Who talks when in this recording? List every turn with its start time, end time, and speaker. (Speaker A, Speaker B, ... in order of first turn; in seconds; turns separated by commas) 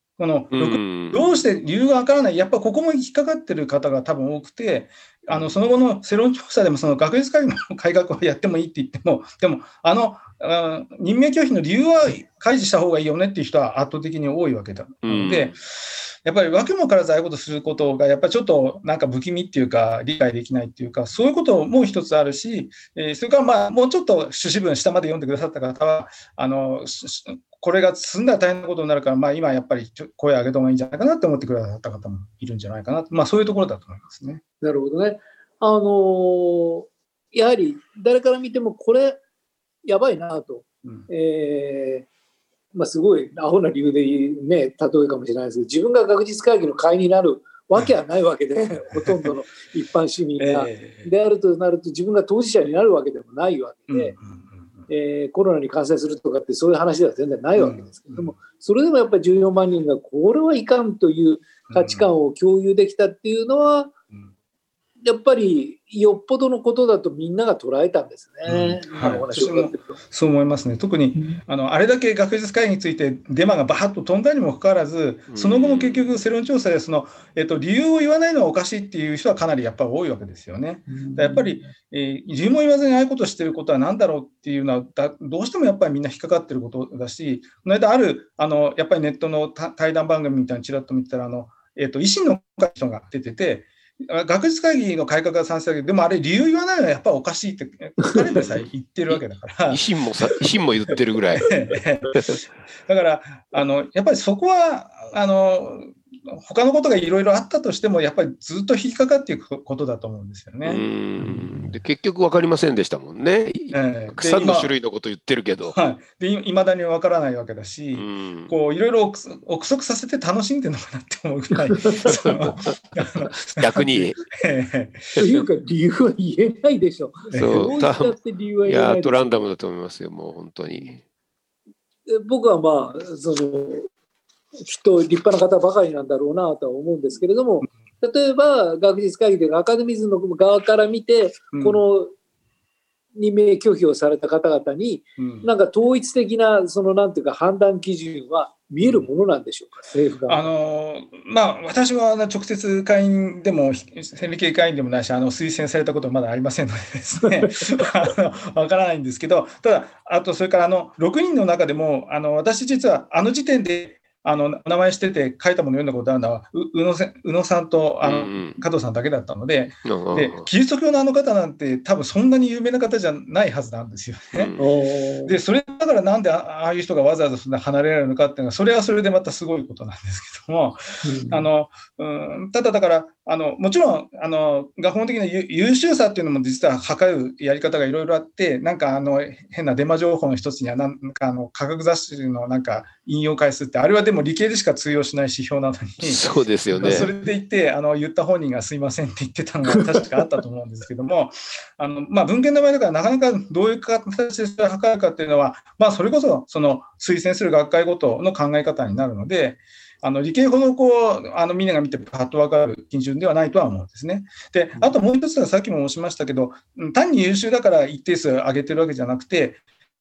Speaker A: 0.2-34.4, Speaker B: 0.5-1.2, Speaker B: 15.0-15.5, Speaker C: 34.6-39.2, Speaker C: 39.9-42.1, Speaker A: 40.8-41.1, Speaker C: 42.7-54.2, Speaker A: 50.4-51.1, Speaker A: 53.9-54.9, Speaker C: 54.9-64.0, Speaker A: 57.6-58.4, Speaker A: 61.7-62.1, Speaker C: 65.0-70.0, Speaker A: 68.5-99.8, Speaker C: 71.2-71.4, Speaker B: 75.3-76.2, Speaker C: 80.9-81.7, Speaker B: 99.1-101.6, Speaker A: 100.9-102.3, Speaker A: 102.9-110.8, Speaker B: 110.7-115.8, Speaker C: 111.2-111.7, Speaker A: 113.7-114.7, Speaker A: 115.7-125.2, Speaker B: 118.0-118.5, Speaker C: 121.7-122.1, Speaker B: 122.1-122.8, Speaker B: 123.4-124.2, Speaker C: 125.2-129.4, Speaker A: 127.3-127.7, Speaker B: 127.3-131.0, Speaker C: 132.1-133.9, Speaker C: 134.6-142.1, Speaker A: 141.5-141.8, Speaker C: 143.2-150.5, Speaker A: 145.2-145.5, Speaker A: 150.3-174.6, Speaker C: 157.2-157.9, Speaker B: 168.0-168.6, Speaker B: 169.8-170.5, Speaker B: 174.3-174.6, Speaker C: 174.6-175.4, Speaker A: 175.3-196.2, Speaker C: 181.0-181.5, Speaker B: 196.0-197.1, Speaker C: 196.7-197.2, Speaker A: 196.8-219.6